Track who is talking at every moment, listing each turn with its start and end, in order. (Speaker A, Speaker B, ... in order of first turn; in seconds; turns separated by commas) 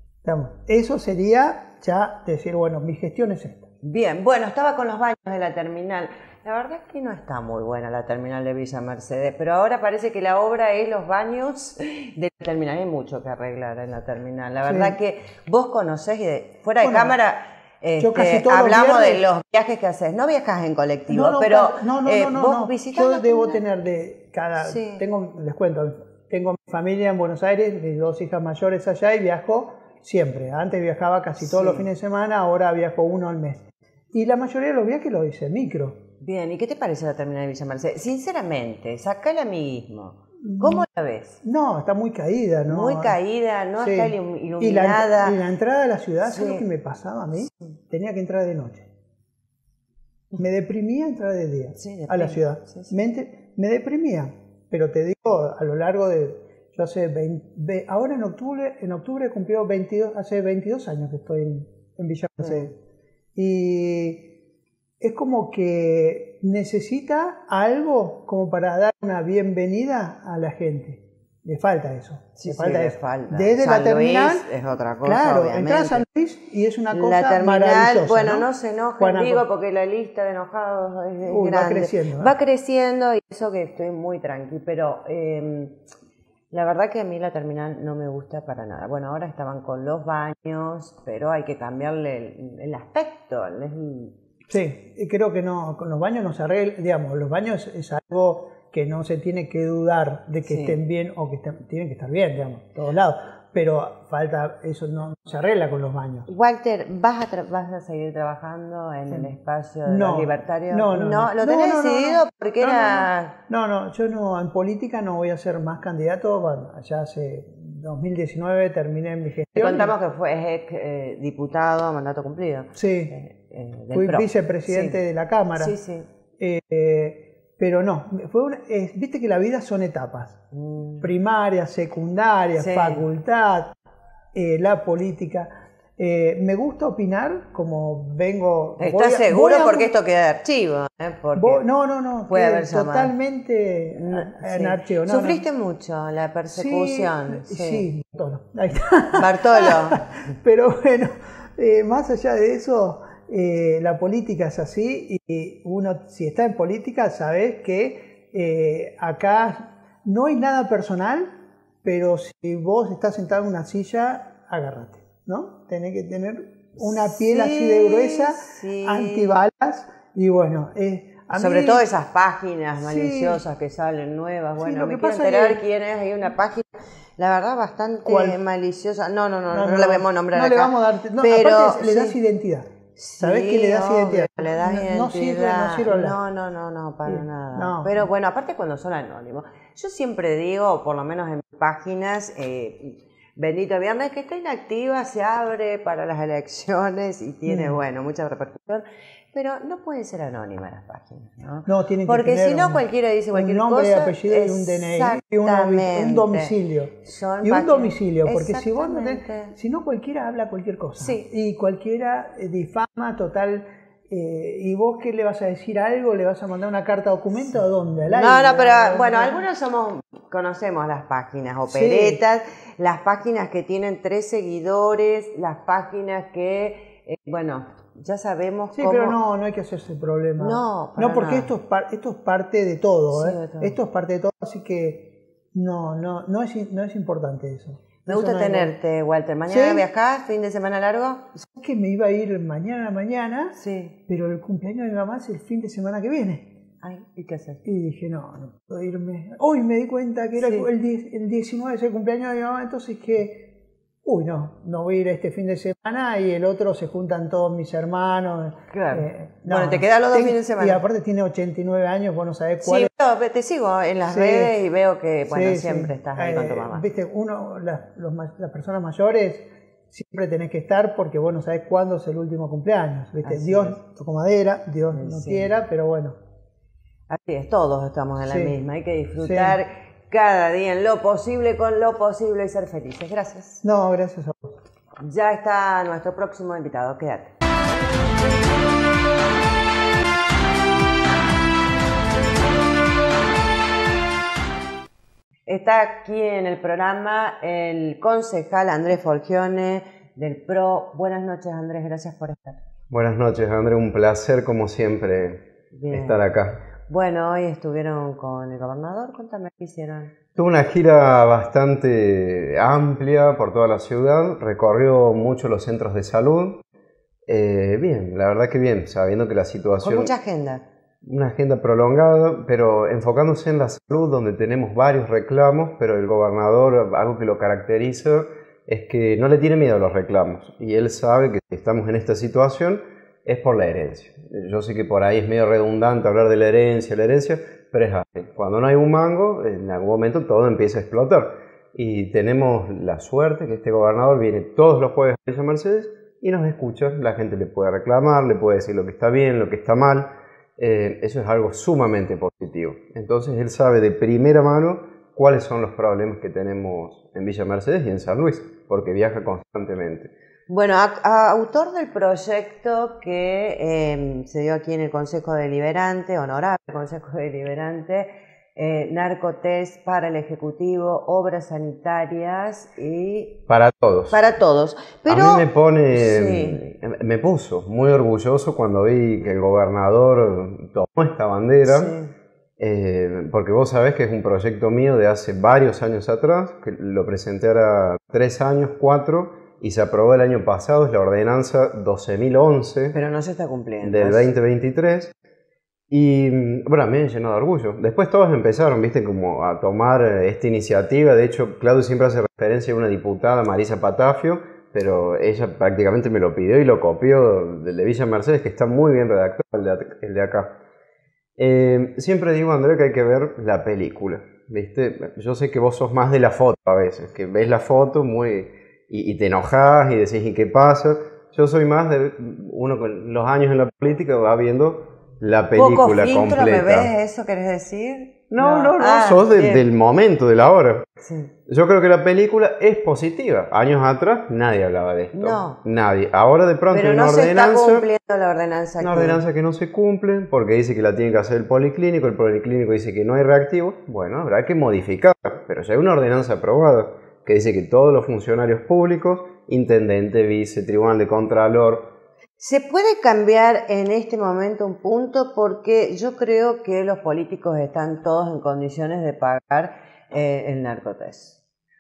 Speaker A: 0.2-3.7, Speaker B: 3.8-23.6, Speaker A: 14.7-15.0, Speaker A: 16.8-17.1, Speaker A: 18.0-19.2, Speaker A: 21.1-36.0, Speaker B: 24.6-25.0, Speaker B: 31.4-31.9, Speaker B: 36.2-41.4, Speaker A: 40.4-40.9, Speaker A: 41.4-43.1, Speaker B: 42.7-45.4, Speaker A: 43.8-48.9, Speaker B: 46.2-46.6, Speaker B: 47.4-47.7, Speaker A: 50.4-62.7, Speaker B: 51.8-52.9, Speaker A: 63.3-64.3, Speaker A: 65.0-74.5, Speaker B: 72.3-76.0, Speaker A: 75.0-78.5, Speaker B: 76.9-85.8, Speaker A: 79.0-79.4, Speaker A: 81.2-82.3, Speaker B: 86.5-94.1, Speaker A: 94.5-106.3, Speaker B: 100.4-100.8, Speaker B: 106.3-113.3, Speaker A: 109.8-119.9, Speaker B: 119.5-125.0, Speaker A: 122.7-123.1, Speaker A: 123.9-125.7, Speaker B: 125.5-126.1, Speaker A: 126.4-130.4, Speaker B: 130.5-131.1, Speaker A: 131.0-133.7, Speaker B: 132.6-133.0, Speaker A: 134.3-139.9, Speaker B: 138.8-141.6, Speaker A: 141.3-145.4, Speaker B: 142.3-143.1, Speaker B: 143.9-147.9, Speaker A: 146.5-171.8, Speaker B: 149.1-150.2, Speaker B: 166.8-169.4, Speaker B: 171.3-182.2, Speaker A: 172.8-173.4, Speaker A: 174.6-175.6, Speaker A: 178.0-178.4, Speaker A: 179.5-186.2, Speaker B: 182.9-209.6, Speaker A: 187.0-188.1, Speaker A: 197.4-197.8, Speaker A: 201.7-219.4, Speaker B: 211.0-211.2, Speaker B: 218.1-229.2, Speaker A: 221.7-222.2, Speaker A: 228.7-238.7, Speaker B: 230.4-231.5, Speaker B: 233.1-233.8, Speaker B: 238.1-241.3, Speaker A: 239.5-239.8, Speaker A: 241.3-246.5, Speaker B: 243.5-243.9, Speaker B: 246.8-247.6, Speaker A: 247.6-253.5, Speaker B: 250.4-250.7, Speaker A: 254.0-262.9, Speaker B: 258.7-260.8, Speaker B: 262.6-266.8, Speaker A: 264.1-264.5, Speaker A: 265.3-276.2, Speaker B: 273.2-273.8, Speaker B: 274.9-275.5, Speaker B: 277.1-283.6, Speaker A: 278.2-278.5, Speaker A: 279.2-279.6, Speaker A: 283.6-284.6, Speaker B: 285.0-287.3, Speaker B: 295.5-302.6, Speaker C: 302.9-306.6, Speaker B: 305.8-306.2, Speaker B: 306.9-310.1, Speaker C: 310.4-316.6, Speaker C: 317.3-320.1, Speaker B: 319.8-320.6, Speaker C: 321.0-360.1, Speaker B: 360.5-373.4, Speaker C: 373.5-374.2, Speaker B: 374.1-376.6, Speaker C: 375.1-381.9, Speaker B: 381.6-382.1, Speaker C: 382.6-393.0, Speaker B: 392.9-394.3, Speaker C: 393.8-395.1, Speaker C: 395.9-410.6, Speaker C: 411.4-426.9, Speaker B: 425.5-429.6, Speaker C: 428.3-430.9, Speaker B: 431.0-431.3, Speaker C: 431.5-437.9, Speaker B: 435.1-435.6, Speaker B: 436.7-439.2, Speaker C: 438.8-451.9, Speaker B: 452.4-461.4